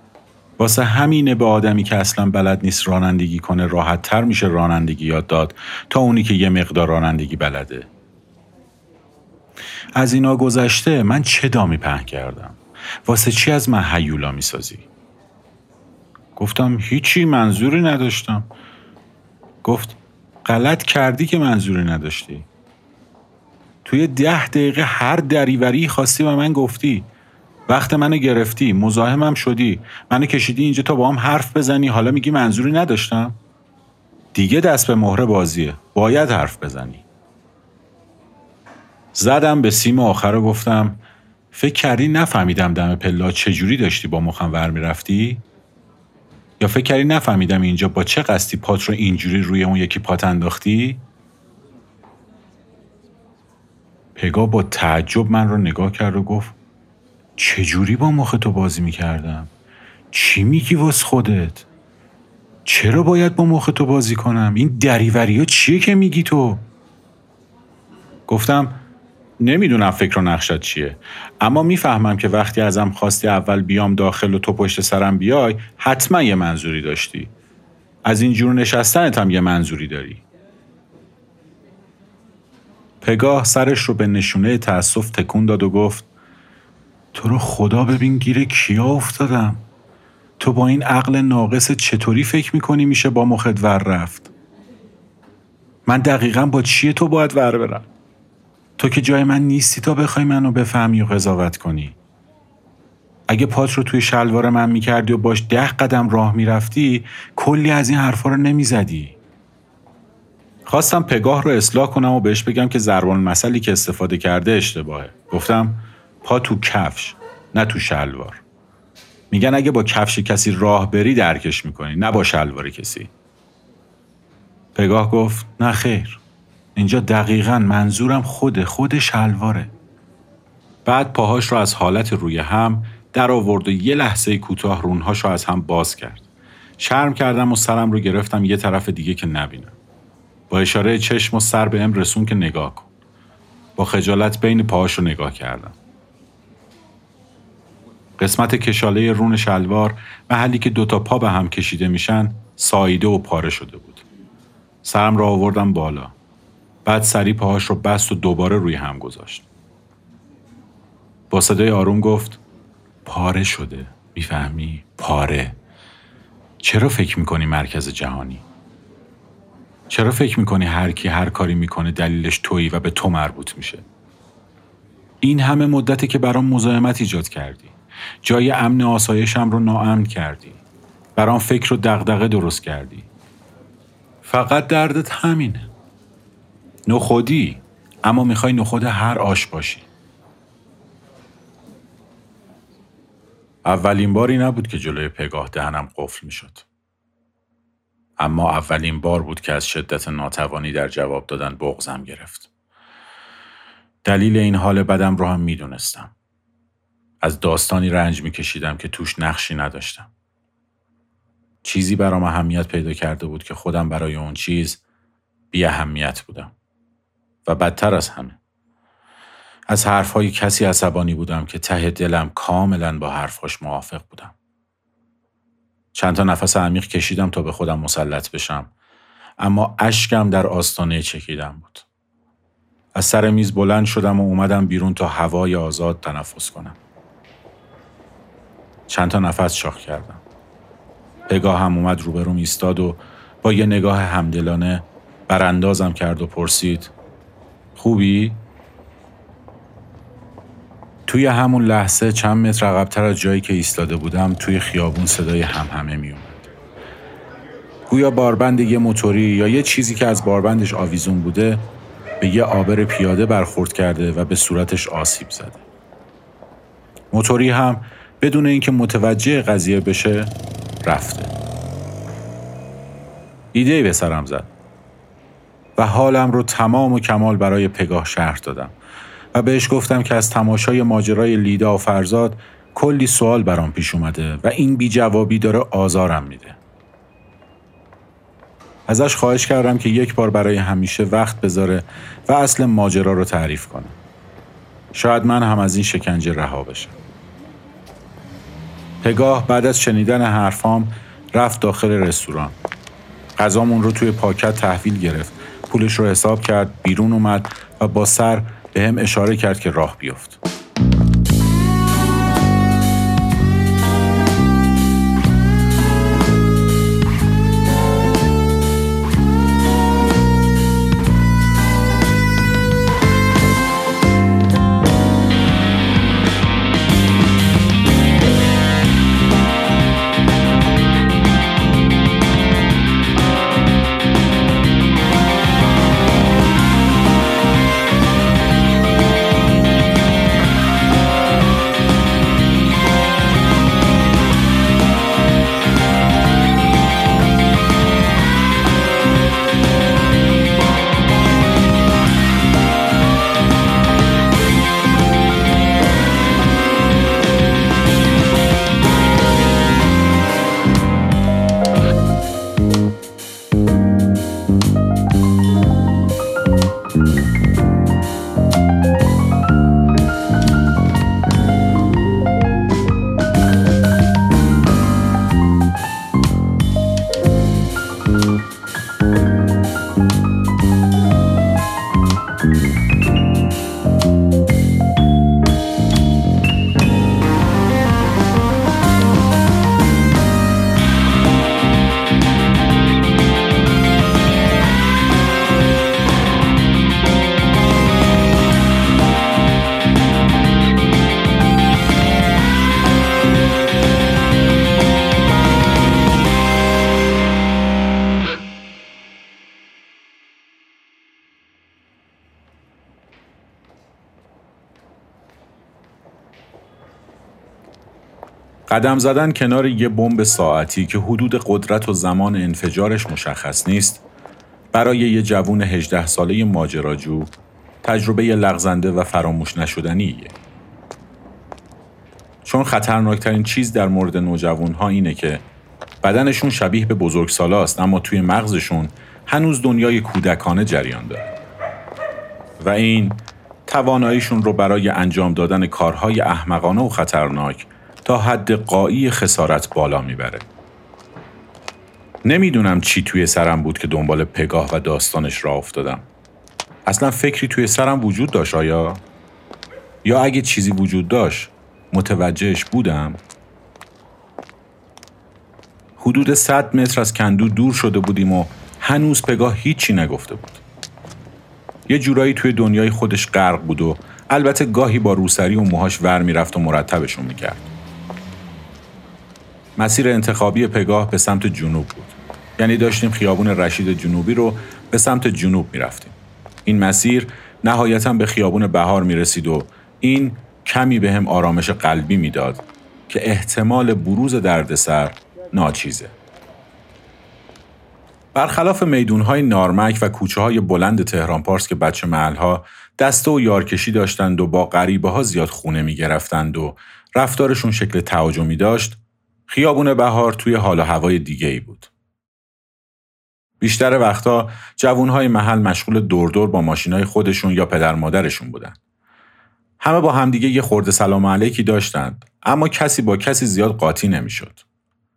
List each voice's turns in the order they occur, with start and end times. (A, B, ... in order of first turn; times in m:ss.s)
0:00.6-0:07.9 A
0:10.0-0:14.9 A
0:16.4-0:18.5 A
0:19.6-0:22.5 A
0:23.8-0:27.1 A
0:27.7-0:33.4 A
0:34.3-0:37.0 A
0:39.1-0:41.0 A
0:41.5-0:45.4 A
0:46.6-0:51.0 A
0:54.2-0:56.6 A
0:57.4-0:59.5 A
1:00.1-1:01.6 A
1:02.6-1:06.6 A
1:08.3-1:08.8 A
1:09.4-1:17.3 A
1:18.0-1:20.2 A
1:23.0-1:26.1 A
1:27.1-1:29.6 A
1:30.4-1:34.3 A
1:35.8-1:37.9 A
1:38.8-1:42.0 A
1:43.3-1:49.2 A
1:50.7-1:58.4 A
1:59.3-2:03.1 A
2:04.8-2:06.2 A
2:06.8-2:09.7 A
2:10.8-2:16.2 A
2:16.8-2:19.8 A
2:20.5-2:22.9 A
2:23.8-2:25.8 A
2:28.2-2:34.0 A
2:34.8-2:36.1 A
2:36.8-2:39.4 A
2:41.3-2:42.4 A
2:43.0-2:45.6 A
2:46.6-2:48.4 A
2:49.9-2:53.8 A
2:55.2-3:00.6 A
3:01.2-3:03.1 A
3:04.2-3:05.7 A
3:06.9-3:09.9 A
3:13.6-3:16.6 A
3:18.2-3:22.5 A
3:24.0-3:26.1 A
3:27.2-3:30.1 A
3:31.6-3:34.8 A
3:35.5-3:36.5 A
3:37.4-3:38.4 A
3:39.7-3:44.3 A
3:45.9-3:48.7 A
3:49.4-3:51.8 A
3:52.9-3:56.8 A
3:58.9-4:00.2 A
4:01.3-4:06.9 A
4:07.8-4:08.4 A
4:11.1-4:16.5 A
4:17.9-4:21.7 A
4:22.2-4:25.6 A
4:27.1-4:30.3 A
4:30.8-4:31.3 A
4:33.5-4:34.5 A
4:35.8-4:38.7 A
4:39.3-4:46.6 A
4:48.9-4:54.0 A
4:54.9-4:56.9 A
4:59.0-5:02.6 A
5:03.4-5:10.4 A
6:58.7-7:04.0 A
7:04.7-7:10.4 A
7:12.4-7:15.4 A
7:16.0-7:21.3 A
7:22.6-7:30.4 A
7:32.2-7:36.0 A
7:36.8-7:39.0 A
7:40.0-7:43.2 A
7:46.0-7:50.6 A
7:51.9-7:57.7 A
7:59.8-8:16.1 A
8:18.3-8:31.9 A
8:33.6-8:38.8 A
8:39.8-8:44.6 A